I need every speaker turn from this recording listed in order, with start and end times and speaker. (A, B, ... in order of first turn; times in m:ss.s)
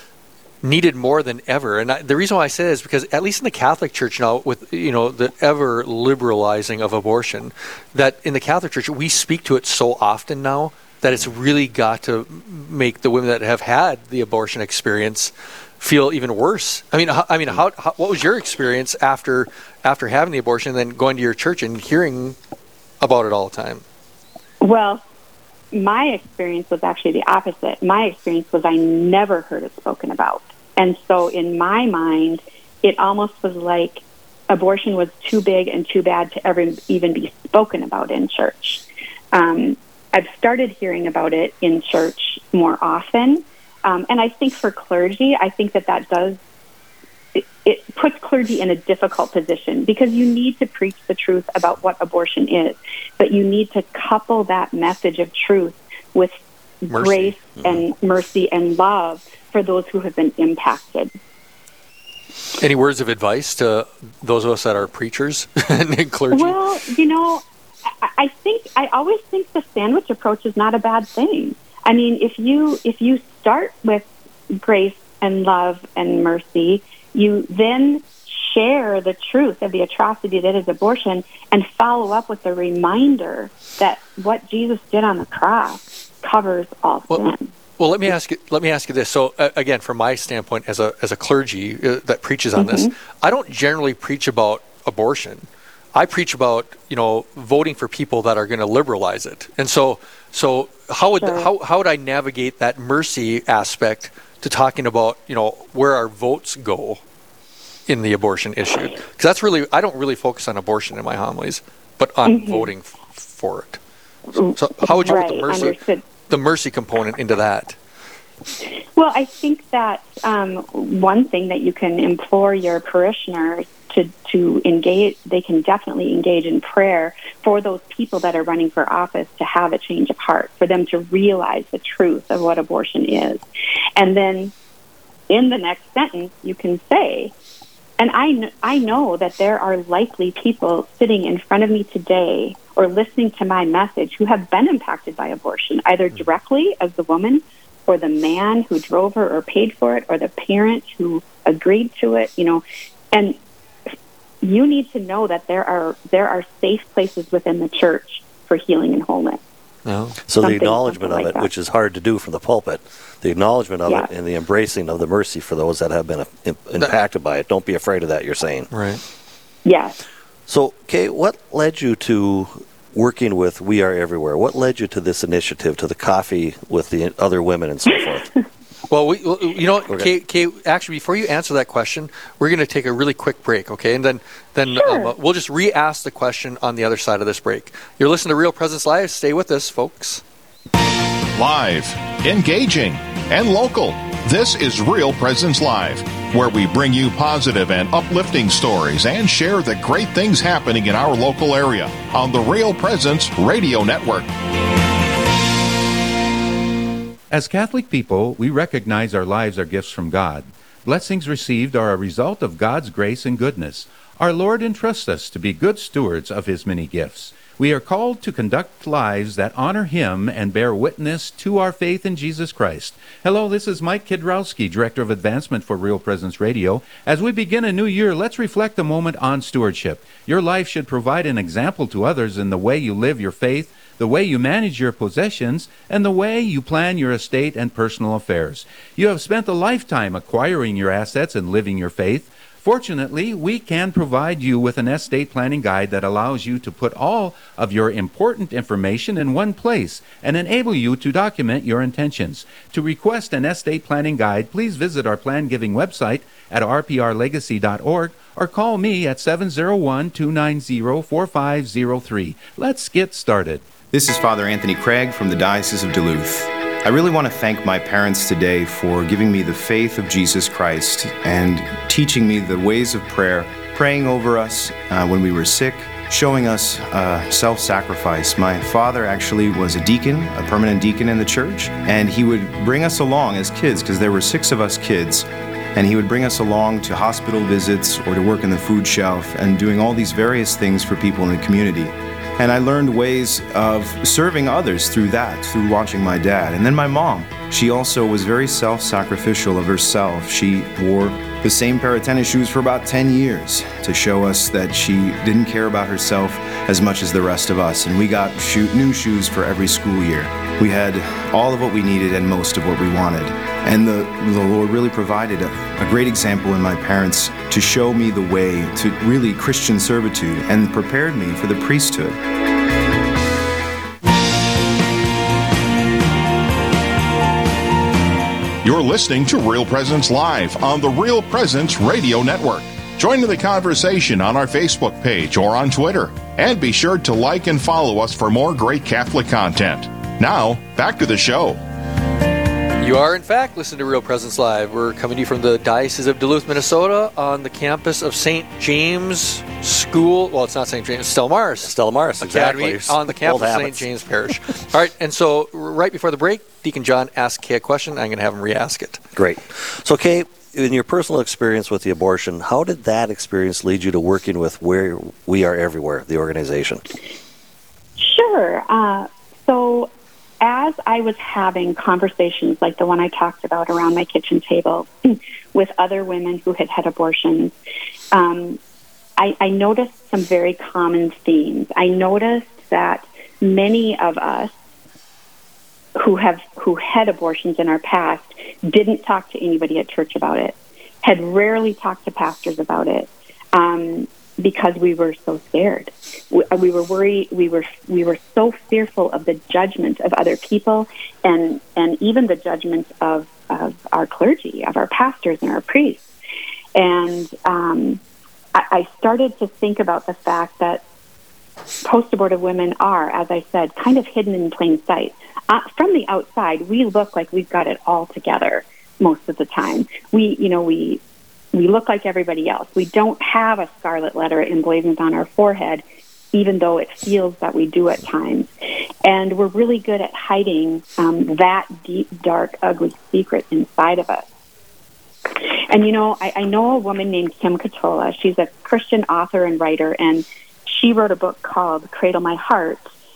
0:00.6-0:22.4 A
0:23.0-0:23.8 A
0:24.6-0:25.0 B
0:25.7-0:46.4 B
0:47.3-1:01.1 B
0:56.9-0:57.3 A
1:02.6-1:06.6 A
1:06.3-1:07.4 B
1:08.0-1:27.5 B
1:27.8-1:47.0 A
1:32.6-1:32.9 B
1:41.2-1:41.5 B
1:47.9-1:53.8 A
1:52.2-1:52.7 B
1:54.3-1:56.0 B
1:54.5-1:55.8 A
1:56.3-1:57.8 A
1:59.0-2:13.4 B
2:14.0-2:14.5 B
2:15.3-2:17.3 B
2:18.0-2:33.4 B
2:34.4-2:39.4 B
2:39.8-2:40.2 A
2:40.2-2:48.7 C
2:40.4-2:41.5 B
2:48.7-2:49.0 A
2:49.6-2:50.0 B
2:50.5-2:58.3 C
2:58.9-3:10.2 A
3:04.8-3:05.1 B
3:11.3-3:24.3 D
3:27.3-4:23.7 E
4:23.9-5:22.2 F
5:28.6-5:41.6 D
5:42.8-5:59.0 A
5:51.6-5:53.8 C
5:59.1-6:06.8 C
6:08.0-6:09.9 B
6:10.4-6:17.5 B
6:18.1-6:18.6 B
6:19.2-6:24.5 B
6:26.0-6:46.0 B
6:46.7-6:48.0 B
6:48.5-6:50.8 B
6:51.8-7:01.0 B
7:01.5-7:08.5 B
7:09.0-7:14.2 B
7:15.3-7:22.8 B